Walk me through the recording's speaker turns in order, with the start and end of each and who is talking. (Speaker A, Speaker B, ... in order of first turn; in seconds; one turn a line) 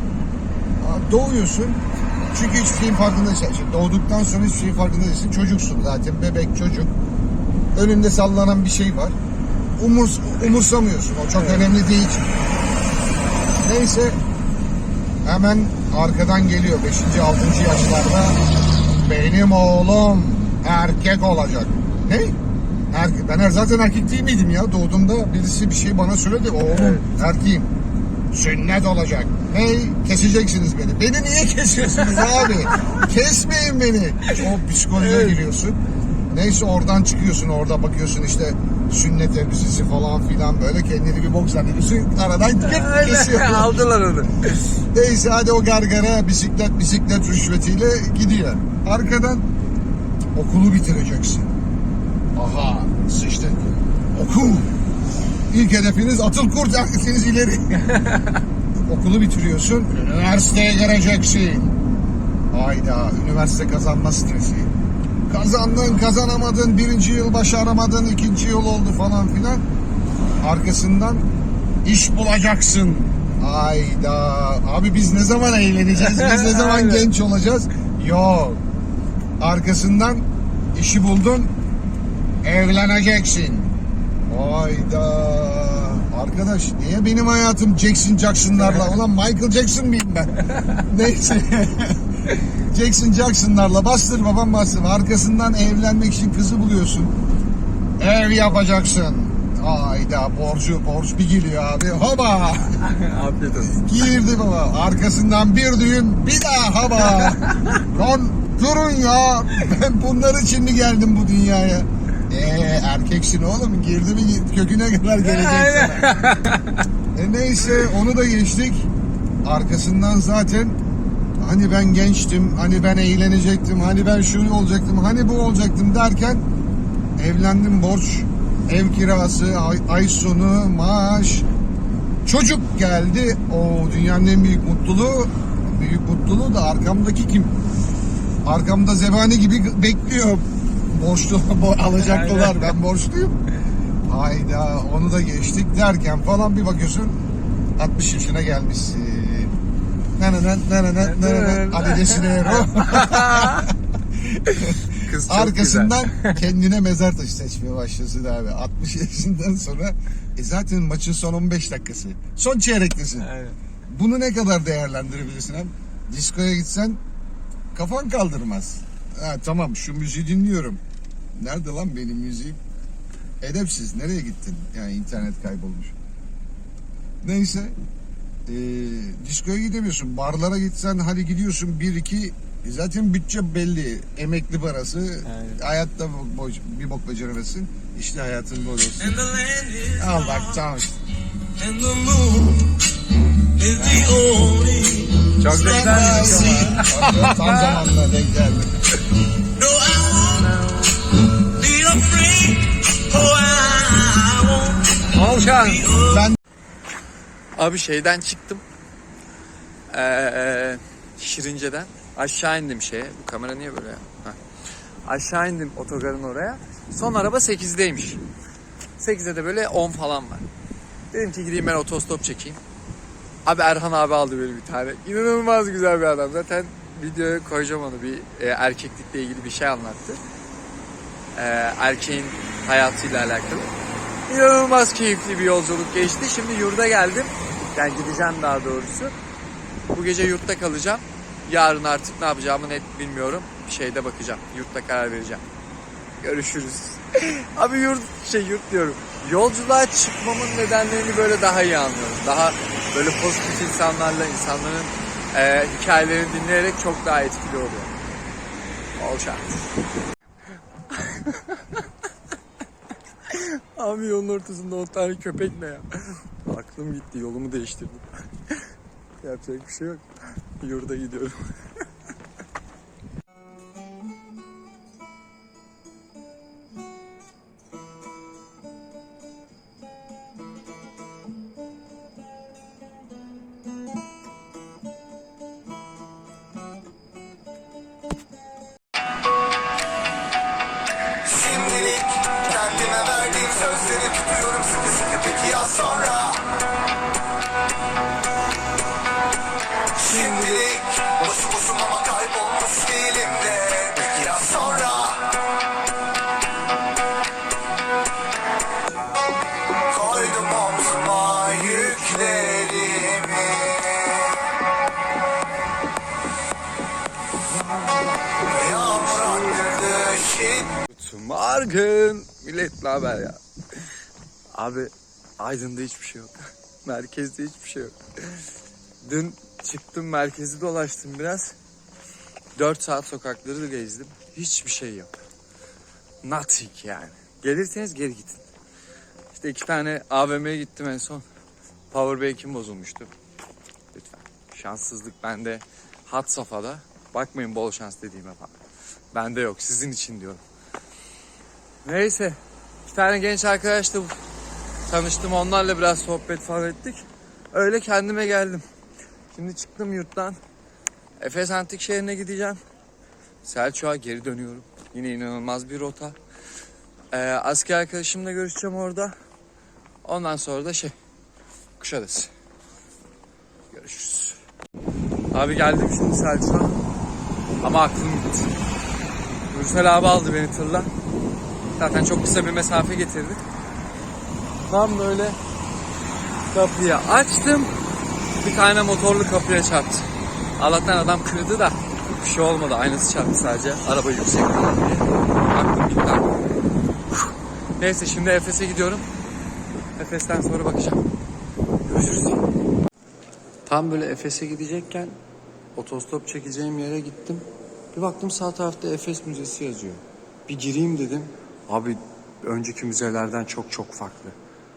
Speaker A: 0.8-6.9
Speaker A: 7.8-9.2
Speaker A: 9.8-12.3
Speaker A: 13.6-14.2
Speaker A: 15.2-18.4
Speaker A: 18.9-22.4
Speaker A: 22.9-27.7
Speaker B: 26.7-27.1
Speaker A: 28.3-35.8
Speaker B: 32.2-33.0
Speaker B: 34.3-35.4
Speaker A: 36.3-43.9
Speaker B: 42.6-44.8
Speaker A: 44.9-49.5
Speaker A: 50.3-51.5
Speaker A: 52.4-54.7
Speaker A: 55.5-57.9
Speaker A: 58.9-61.8
Speaker A: 62.5-64.7
Speaker A: 65.3-69.6
Speaker A: 70.4-71.2
Speaker A: 71.8-78.6
Speaker B: 76.0-77.1
Speaker A: 79.4-80.2
Speaker A: 80.8-81.5
Speaker A: 82.4-83.7
Speaker A: 84.3-92.0
Speaker A: 92.7-97.2
Speaker A: 98.0-102.8
Speaker B: 102.7-104.1
Speaker A: 103.7-116.2
Speaker B: 107.0-107.8
Speaker B: 115.2-116.8
Speaker A: 117.2-118.9
Speaker A: 119.4-120.8
Speaker A: 121.4-126.4
Speaker A: 127.2-131.5
Speaker A: 132.2-137.6
Speaker A: 138.4-143.4
Speaker B: 141.9-142.8
Speaker A: 144.1-147.2
Speaker A: 147.8-149.5
Speaker A: 150.2-153.7
Speaker B: 151.0-153.7
Speaker B: 154.3-156.4
Speaker A: 154.6-163.3
Speaker B: 163.2-163.6
Speaker A: 163.9-167.0
Speaker A: 167.7-170.8
Speaker A: 171.4-172.6
Speaker A: 173.4-176.0
Speaker A: 177.2-177.8
Speaker A: 178.5-189.2
Speaker B: 185.3-185.6
Speaker C: 189.3-190.0
Speaker A: 189.9-190.9
Speaker C: 191.6-192.8
Speaker C: 193.6-195.3
Speaker B: 193.8-194.3
Speaker B: 195.4-197.8
Speaker A: 195.4-198.7
Speaker C: 199.6-200.5
Speaker C: 201.4-204.8
Speaker B: 205.0-206.1
Speaker A: 206.0-206.4
Speaker B: 207.6-208.6
Speaker B: 209.9-214.4
Speaker B: 215.1-218.2
Speaker B: 219.0-220.5
Speaker B: 221.1-222.6
Speaker B: 223.4-230.2
Speaker B: 231.3-233.7
Speaker B: 234.3-239.1
Speaker B: 239.9-245.4
Speaker B: 246.2-257.9
Speaker B: 259.0-259.7
Speaker B: 260.9-261.8
Speaker B: 263.3-268.6
Speaker B: 269.2-270.0
Speaker B: 270.6-271.6
Speaker B: 291.4-296.2
Speaker C: 294.9-296.5
Speaker B: 300.0-302.1
Speaker C: 301.4-305.3
Speaker B: 303.7-305.1
Speaker C: 309.9-312.8
Speaker B: 311.4-313.6
Speaker B: 317.5-323.4
Speaker C: 319.8-320.6
Speaker B: 324.6-328.4
Speaker B: 329.0-331.6
Speaker B: 332.6-335.2
Speaker B: 336.2-338.5
Speaker B: 339.3-341.2
Speaker B: 341.9-343.1
Speaker B: 343.9-348.5
Speaker B: 349.1-350.4
Speaker B: 351.8-354.2
Speaker B: 354.9-358.6
Speaker B: 359.3-360.4
Speaker B: 361.2-362.6
Speaker B: 363.4-366.2
Speaker B: 367.1-369.1
Speaker B: 370.0-370.9
Speaker B: 371.8-372.3
Speaker B: 373.7-374.4
Speaker B: 375.3-376.8
Speaker B: 377.6-378.5
Speaker B: 379.5-380.9
Speaker B: 381.8-383.4
Speaker B: 384.7-385.4
Speaker B: 386.5-387.7
Speaker B: 388.4-396.3
Speaker B: 397.1-399.1
Speaker B: 400.0-401.1
Speaker B: 401.9-402.5
Speaker B: 403.7-405.2
Speaker B: 405.8-414.4